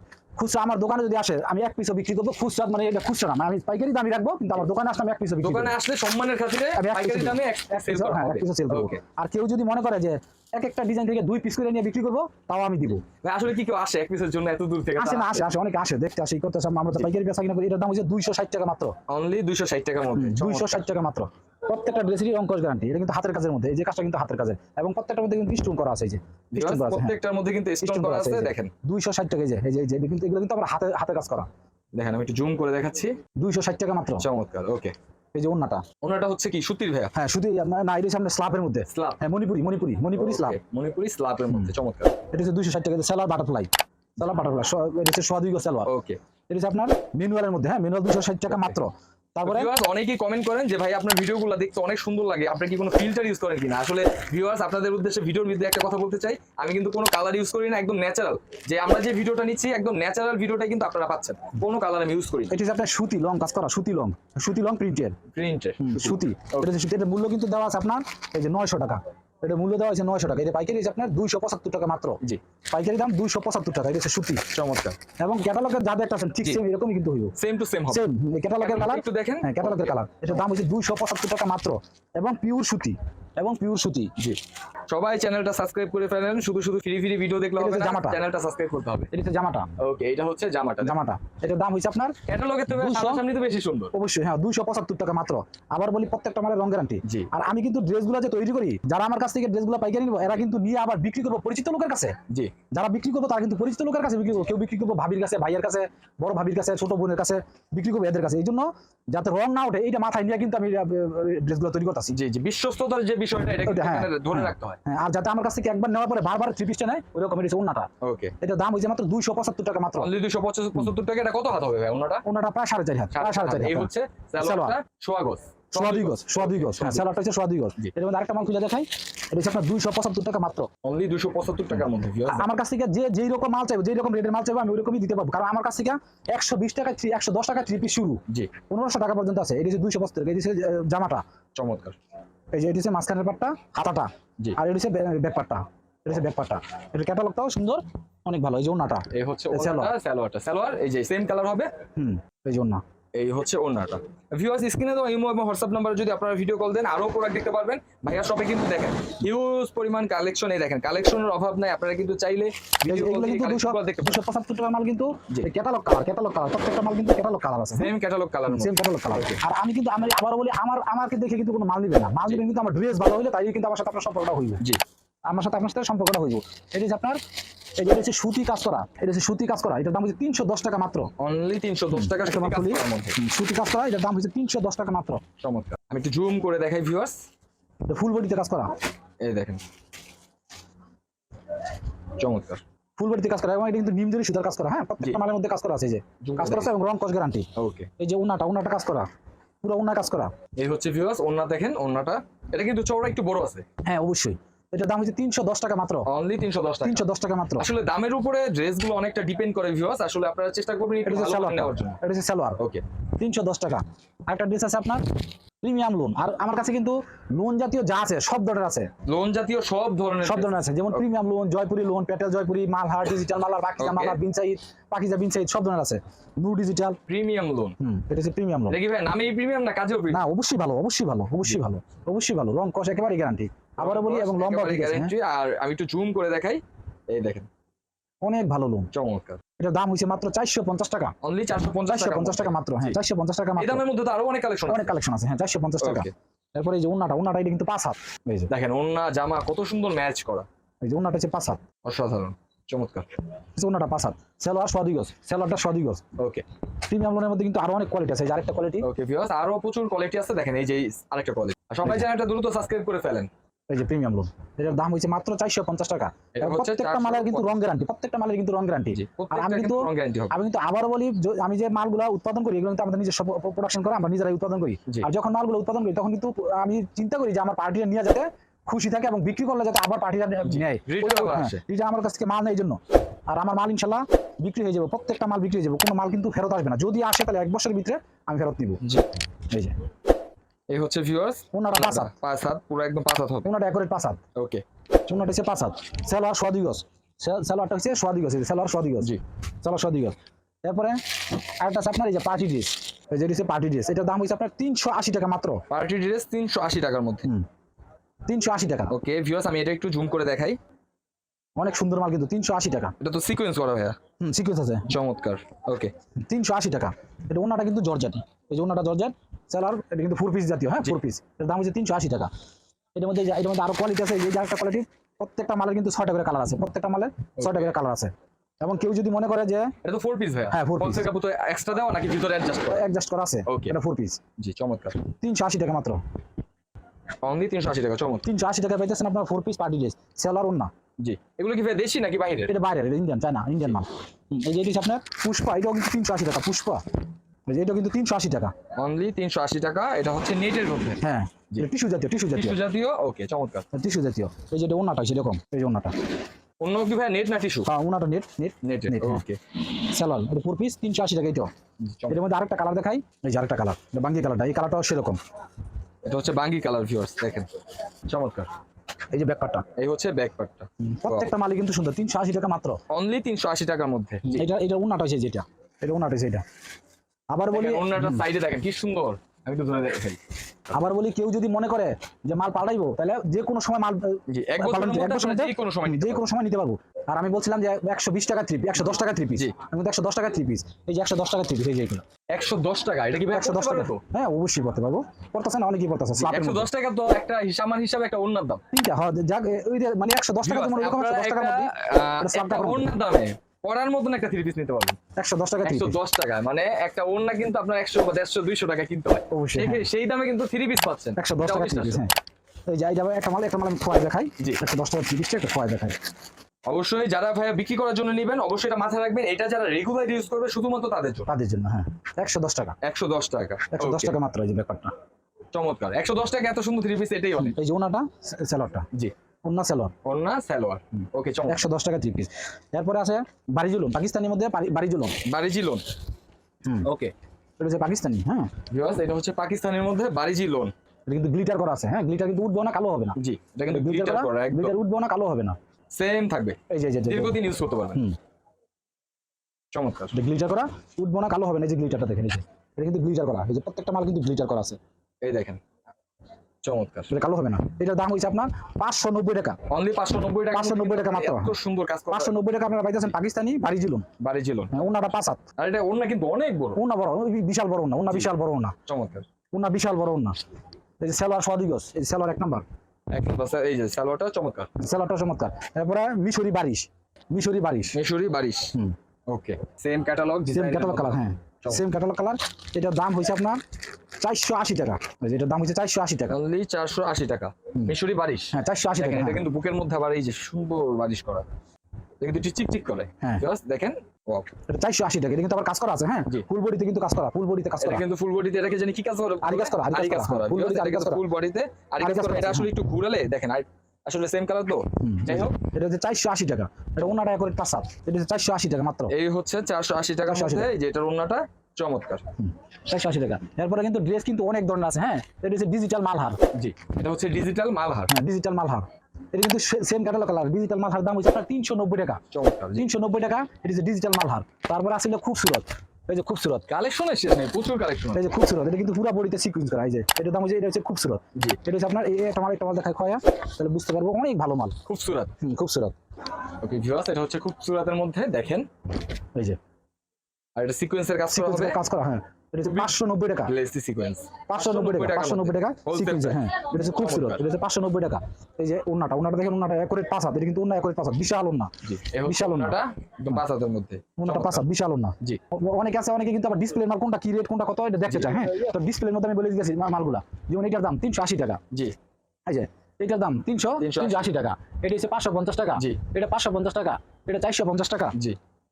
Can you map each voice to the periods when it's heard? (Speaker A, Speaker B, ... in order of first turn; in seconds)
Speaker A: 0.4-5.8, 6.7-13.0, 15.0-18.9, 20.1-27.2, 27.8-31.5, 33.4-34.3, 35.3-35.8, 37.1-40.6, 42.3-45.9, 46.5-49.7, 62.5-65.2, 65.8-72.2, 72.7-74.4, 75.2-77.3, 77.9-84.1, 87.6-88.2, 89.1-89.7, 90.8-92.1, 92.7-93.2, 93.9-102.2, 102.7-112.2, 113.6-117.9, 118.4-120.1, 122.2-124.8, 125.7-130.7, 132.2-141.2, 142.5-149.9, 151.9-152.8, 162.8-167.9, 168.5-174.6, 175.3-177.2, 177.8-181.1, 181.9-185.2, 187.9-188.7, 193.0-197.5, 198.0-199.1, 199.6-200.3, 203.8-206.1, 206.8-207.7, 211.1-212.6, 213.2-215.0, 215.6-218.9, 220.2-227.0, 227.8-228.8, 230.1-235.1, 238.2-238.9, 239.6-241.1, 241.9-243.8, 244.7-248.5, 250.8-251.6, 253.6-256.0, 256.9-258.9, 263.7-282.8, 283.3-288.8, 289.5-289.8, 291.5-292.1, 293.4-294.2, 295.1-305.6, 308.3-308.9, 311.6-312.9, 314.2-314.9, 316.3-322.3, 322.9-329.7, 330.5-331.1, 332.7-334.2, 335.1-336.0, 338.2-340.7, 342.5-346.8, 347.5-348.5, 351.0-352.6, 353.7-355.9, 357.7-361.5, 362.1-365.2, 369.1-369.6, 370.8-372.8, 374.2-376.4, 377.3-378.3, 380.7-392.0, 393.2-396.7, 398.7-402.9, 405.2-406.0, 409.3-409.9, 411.2-412.1, 412.7-416.0, 421.3-422.8, 423.7-424.9, 427.4-428.9, 429.4-429.9, 431.5-435.2, 437.6-438.5, 441.1-445.6, 446.7-447.4, 450.1-454.8, 457.1-459.6, 460.5-461.6, 462.1-464.1, 464.7-465.4, 466.8-468.8, 469.5-470.4, 471.0-472.6, 474.8-478.0, 480.5-483.6, 484.2-486.4, 488.5-489.5, 494.7-498.0, 499.4-501.2, 502.0-502.7, 505.0-509.1, 510.2-510.7, 512.4-516.4, 518.1-522.2, 522.8-526.6, 528.1-534.8, 535.4-535.9, 541.3-543.5, 544.5-551.7, 552.2-553.5, 554.2-561.6, 562.5-568.1
Speaker B: 5.4-9.0, 13.2-15.5, 19.1-20.8, 26.6-28.7, 31.9-33.1, 34.2-34.9, 36.0-37.1, 38.9-39.2, 40.2-42.1, 45.9-46.2, 48.5-48.8, 49.4-62.5, 65.3-66.7, 74.5-75.0, 77.4-78.0, 78.6-80.0, 84.9-89.1, 89.8-91.0, 92.3-93.9, 112.1-114.8, 118.0-118.3, 120.0-122.2, 123.1-127.1, 130.8-132.5, 141.6-141.9, 149.1-151.7, 153.2-164.2, 167.7-169.4, 181.2-183.2, 185.4-187.2, 189.2-189.6, 192.2-192.6, 196.2-196.7, 197.6-197.9, 200.6-203.6, 206.1-207.1, 207.6-212.0, 212.6-212.8, 219.1-221.0, 223.8-224.2, 227.1-227.8, 228.7-230.2, 233.8-237.5, 238.9-239.4, 241.2-243.0, 243.6-244.9, 245.8-246.1, 248.5-250.4, 251.8-253.1, 256.2-256.4, 258.8-263.3, 266.4-267.6, 268.9-270.4, 280.4-281.6, 290.7-293.5, 294.4-294.6, 305.7-307.3, 308.9-310.6, 313.0-314.0, 314.9-315.9, 327.4-327.7, 329.8-332.9, 333.5-333.7, 334.4-335.0, 337.2-338.2, 341.0-342.5, 348.8-351.6, 352.4-353.6, 356.6-357.7, 358.6-359.4, 361.8-362.2, 366.0-368.5, 369.8-371.3, 372.9-374.5, 377.5-380.2, 384.3-386.2, 392.3-394.0, 396.1-398.6, 400.4-405.0, 405.6-412.0, 416.7-421.3, 422.8-424.1, 425.5-427.6, 430.0-431.6, 435.2-435.9, 436.9-437.1, 438.7-440.7, 443.1-444.8, 445.9-448.0, 449.7-450.1, 455.2-455.6, 456.6-457.1, 459.7-462.4, 464.2-464.8, 465.6-466.8, 468.9-469.2, 473.1-474.7, 477.9-478.8, 479.3-481.8, 486.3-491.5, 492.2-494.5, 497.8-505.6, 509.1-512.2, 516.5-518.1, 522.3-522.9, 526.7-528.3, 534.9-535.3, 536.6-538.7, 540.5-541.8, 542.6-542.9, 543.5-547.4, 551.8-554.6, 558.1-558.5, 563.8-564.3